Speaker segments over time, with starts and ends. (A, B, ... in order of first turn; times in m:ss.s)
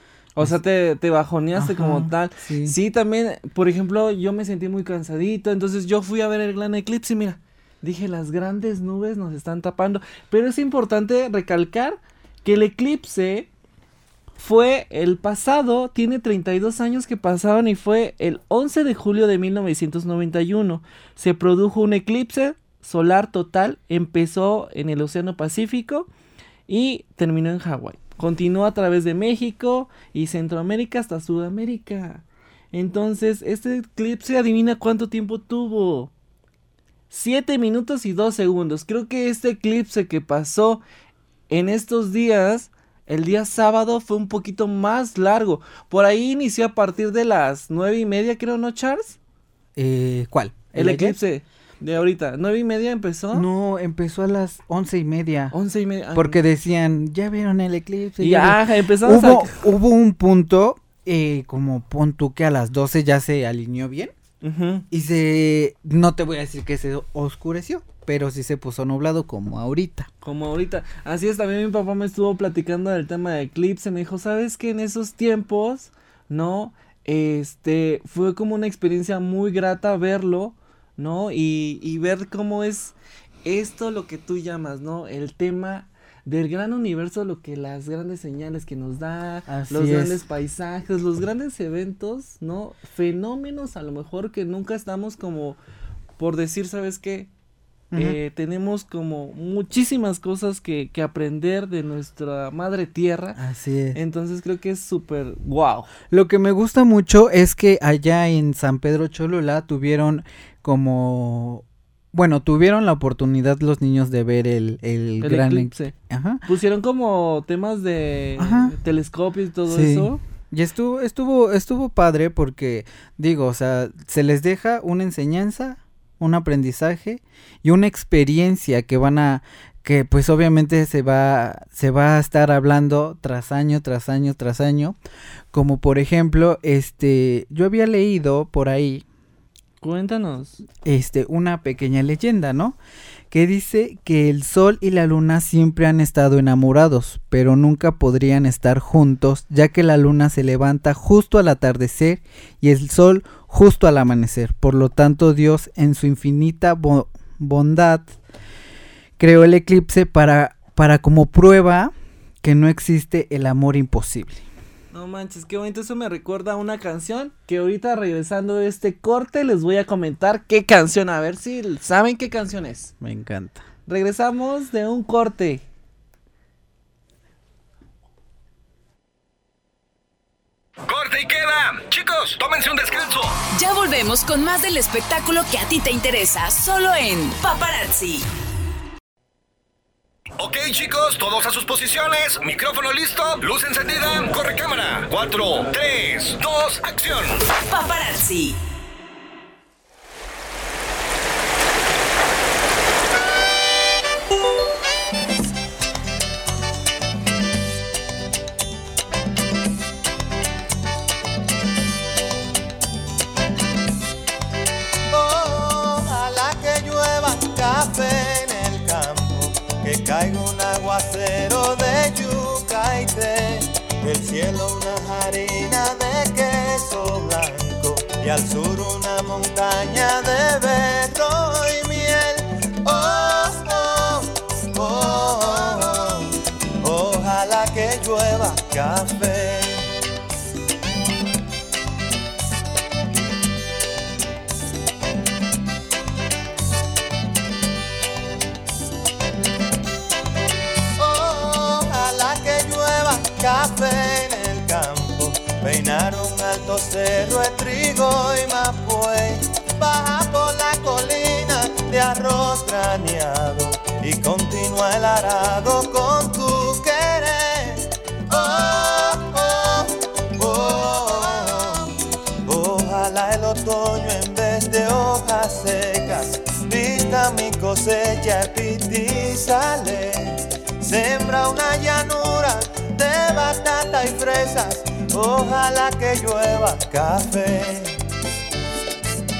0:00.3-0:13.5 A
0:01.5-0:02.8 B
0:14.4-0:26.1 A
0:26.7-0:36.1 A
0:37.1-0:40.8 A
0:41.5-0:49.2 A
0:49.8-0:51.2 B
0:50.7-0:53.4 A
0:53.3-0:55.5 B
0:55.5-0:56.4 A
0:56.1-1:04.1 B
0:58.2-0:59.6 A
1:04.4-1:04.8 A
1:04.9-1:10.1 B
1:10.2-1:35.6 A
1:29.5-1:30.2 B
1:36.2-1:37.3 A
1:37.9-1:38.2 B
1:37.9-1:43.4 A
1:43.3-1:44.0 B
1:43.9-1:45.9 A
1:46.1-1:56.4 B
1:55.2-1:55.9 A
1:56.4-2:00.2 A
1:58.4-1:58.7 B
1:59.7-2:15.0 B
2:15.5-2:19.0 B
2:19.8-2:20.6 A
2:20.8-2:22.8 B
2:23.3-2:38.1 B
2:39.2-2:44.4 B
2:44.9-2:52.9 A
2:53.0-2:53.6 B
2:53.9-2:55.6 A
3:00.8-3:03.4 C
3:03.5-3:08.3 D
3:10.4-3:17.4 C
3:17.7-3:18.6 D
3:35.1-3:59.9 E
4:11.0-4:31.9 E
4:32.4-4:48.0 E